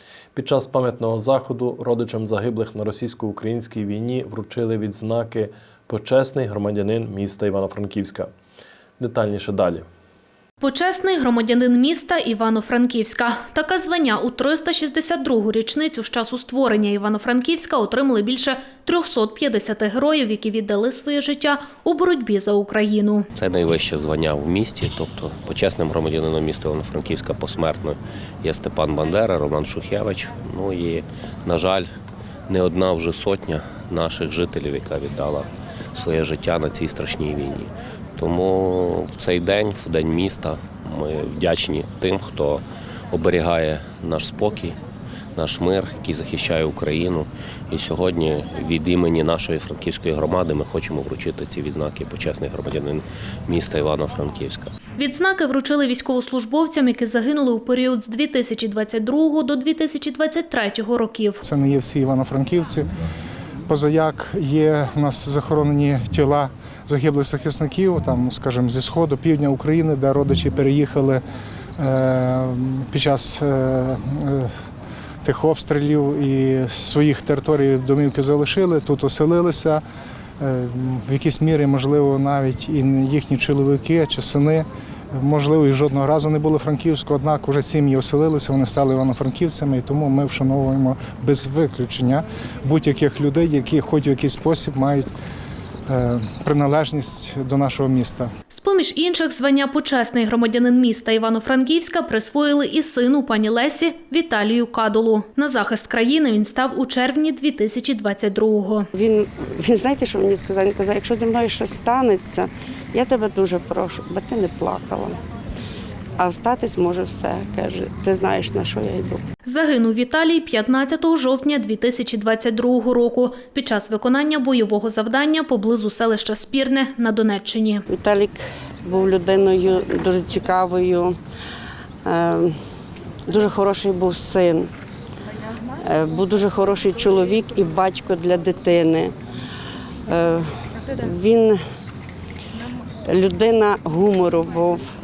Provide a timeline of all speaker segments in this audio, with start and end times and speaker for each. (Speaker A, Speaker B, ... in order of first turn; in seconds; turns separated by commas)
Speaker A: 0.3-8.3, Speaker A: 9.0-9.8, Speaker B: 10.6-23.3, Speaker C: 23.4-31.9, Speaker C: 32.5-44.8, Speaker C: 45.3-54.7, Speaker B: 55.0-61.4, Speaker D: 61.4-62.9, Speaker D: 63.7-71.2, Speaker D: 71.8-74.5, Speaker D: 75.2-79.8, Speaker D: 80.4-95.1, Speaker D: 95.9-98.3, Speaker B: 98.5-108.9, Speaker E: 108.9-115.2, Speaker E: 116.2-119.2, Speaker B: 119.4-127.8, Speaker E: 127.9-131.2, Speaker E: 132.0-132.6, Speaker E: 133.2-134.7, Speaker E: 135.8-139.1, Speaker E: 140.1-141.6, Speaker E: 143.1-144.9